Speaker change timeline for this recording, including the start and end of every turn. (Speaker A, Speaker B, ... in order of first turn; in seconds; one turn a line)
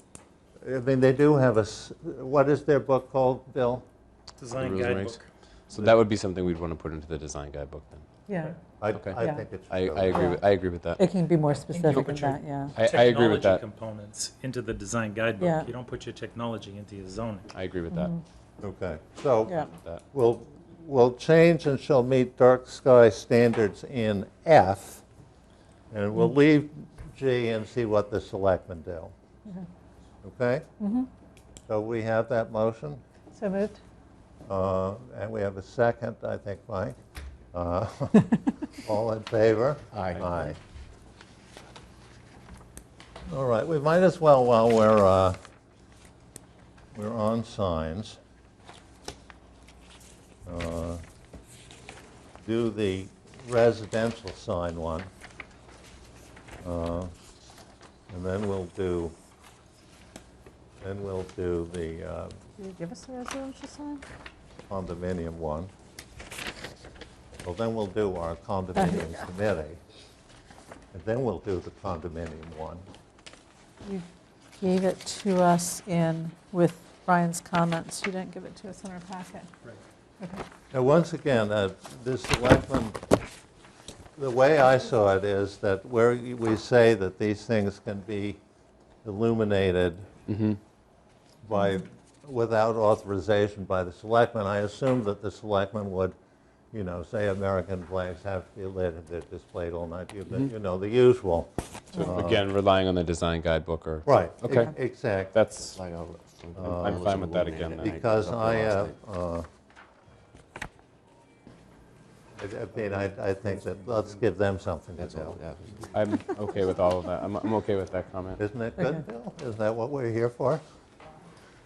Speaker A: 0.6-3.8
Speaker B: 4.4-6.0
Speaker C: 4.5-5.2
Speaker C: 5.7-8.0
Speaker D: 8.3-8.6
Speaker A: 8.8-10.3
Speaker C: 8.9-11.0
Speaker D: 9.2-9.5
Speaker D: 10.1-10.4
Speaker D: 11.0-12.7
Speaker B: 11.7-17.5
Speaker C: 12.7-13.6
Speaker D: 15.4-15.7
Speaker C: 17.5-18.1
Speaker D: 17.9-18.2
Speaker A: 18.6-25.0
Speaker C: 19.7-20.0
Speaker A: 25.9-29.1
Speaker A: 30.2-30.6
Speaker D: 30.8-31.1
Speaker A: 31.7-33.0
Speaker D: 33.3-33.8
Speaker A: 34.5-37.0
Speaker A: 37.5-40.6
Speaker A: 43.3-45.4
Speaker A: 46.9-48.2
Speaker A: 50.5-51.0
Speaker A: 52.4-55.1
Speaker A: 56.6-57.1
Speaker A: 58.1-59.1
Speaker A: 60.8-62.4
Speaker D: 62.6-64.0
Speaker A: 64.7-65.7
Speaker A: 67.4-69.8
Speaker D: 68.8-69.2
Speaker A: 70.9-72.8
Speaker D: 74.6-79.5
Speaker A: 80.7-83.0
Speaker A: 84.2-88.4
Speaker A: 89.0-90.1
Speaker C: 90.3-90.6
Speaker A: 91.4-96.1
Speaker A: 96.7-102.4
Speaker C: 101.9-104.7
Speaker A: 104.0-105.3
Speaker C: 105.3-105.8
Speaker E: 105.6-109.0
Speaker A: 106.5-109.5
Speaker C: 106.8-108.0
Speaker A: 112.4-115.4
Speaker E: 115.0-115.9
Speaker C: 115.9-118.4
Speaker A: 118.4-120.6